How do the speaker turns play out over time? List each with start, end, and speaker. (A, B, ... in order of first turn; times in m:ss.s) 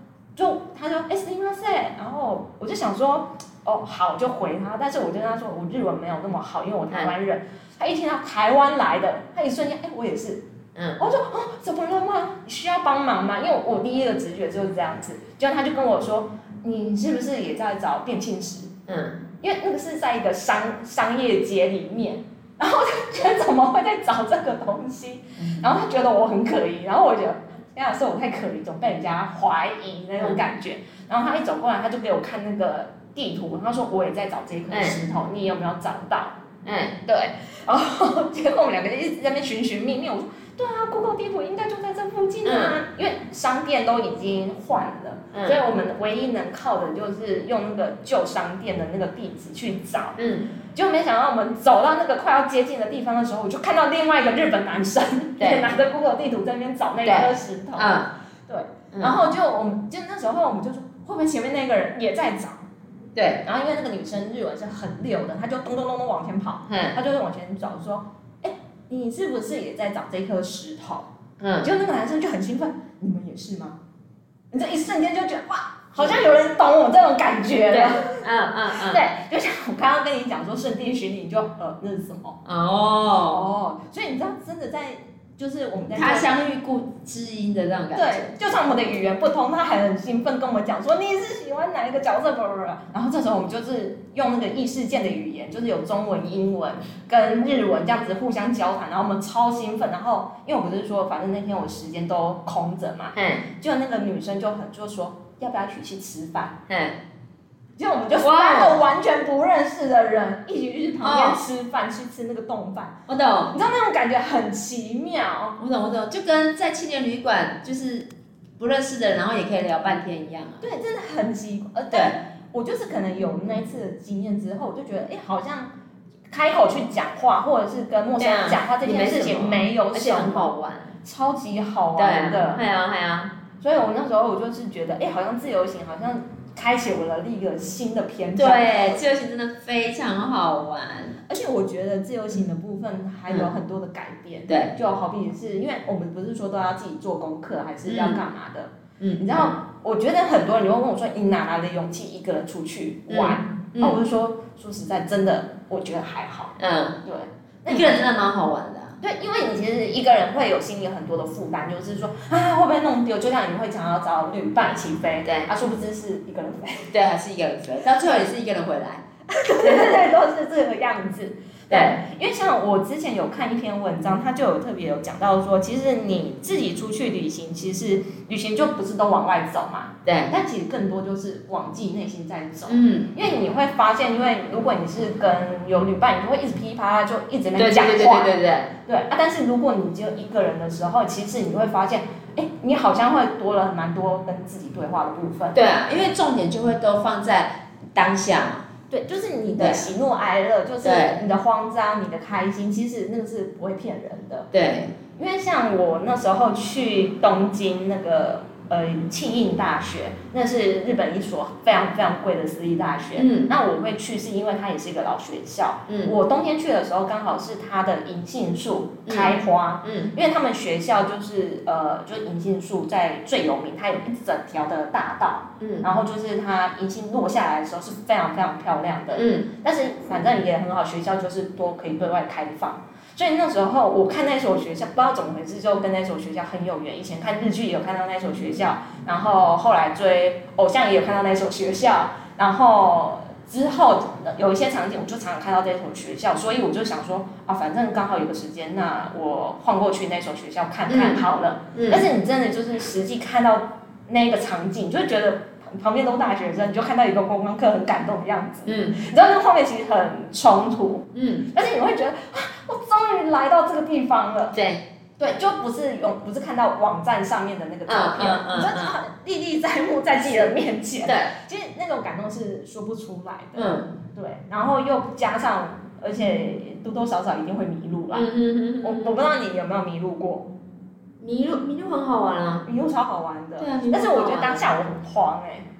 0:00.4-0:10.4 A
0:10.7-0:11.0 B
0:11.0-0:18.7 A
0:18.9-0:19.2 B
0:19.4-0:36.4 A
0:25.4-0:25.6 B
0:34.7-0:35.0 B
0:36.6-0:37.0 B
0:37.0-0:50.2 A
0:42.4-0:42.8 B
0:45.3-0:45.6 B
0:50.2-0:50.5 B
0:50.7-1:02.7 A
0:55.4-0:55.7 B
0:57.0-0:58.1 B
0:58.9-0:59.2 B
1:03.1-1:03.4 B
1:03.4-1:11.1 A
1:06.7-1:07.0 B
1:11.4-1:11.7 B
1:11.6-1:13.8 A
1:14.5-1:18.2 A
1:16.0-1:16.3 B
1:17.7-1:19.0 B
1:18.7-1:22.4 A
1:22.4-1:23.5 B
1:23.3-1:26.4 A
1:25.9-1:28.3 B
1:27.9-1:46.6 A
1:43.1-1:43.4 B
1:46.7-1:47.0 B
1:47.8-1:53.0 A
1:48.2-1:48.8 B
1:51.0-1:51.4 B
1:53.1-1:53.5 B
1:53.5-1:55.6 A
1:55.6-2:00.6 B
2:00.6-2:05.7 A
2:06.3-2:12.6 A
2:08.2-2:10.9 B
2:12.0-2:13.3 B
2:13.6-2:19.1 A
2:18.3-2:21.2 B
2:21.3-2:38.0 A
2:24.5-2:24.7 B
2:27.8-2:28.2 B
2:29.0-2:29.5 B
2:33.1-2:34.0 B
2:36.6-2:37.0 B
2:37.7-2:39.0 B
2:39.0-2:46.9 A
2:45.2-2:45.5 B
2:46.9-2:49.0 B
2:49.3-3:15.6 A
2:49.6-2:50.0 B
2:51.7-2:52.0 B
3:00.0-3:00.3 B
3:02.7-3:03.1 B
3:07.6-3:08.7 B
3:15.5-3:18.7 B
3:18.9-3:24.5 A
3:19.6-3:19.9 B
3:20.8-3:21.2 B
3:24.5-3:24.9 B
3:25.2-4:24.6 A
3:33.2-3:33.5 B
3:35.9-3:36.1 B
3:39.0-3:40.1 B
3:45.6-3:45.9 B
3:49.1-3:49.5 B
4:10.9-4:12.1 B
4:18.6-4:19.0 B
4:21.1-4:21.5 B
4:24.5-4:24.8 B
4:25.2-4:38.3 A
4:27.9-4:29.0 B
4:31.0-4:31.3 B
4:33.6-4:33.9 B
4:38.1-4:39.2 B
4:38.8-4:40.5 A
4:41.2-4:42.6 B
4:42.6-4:45.7 A
4:43.6-4:44.7 B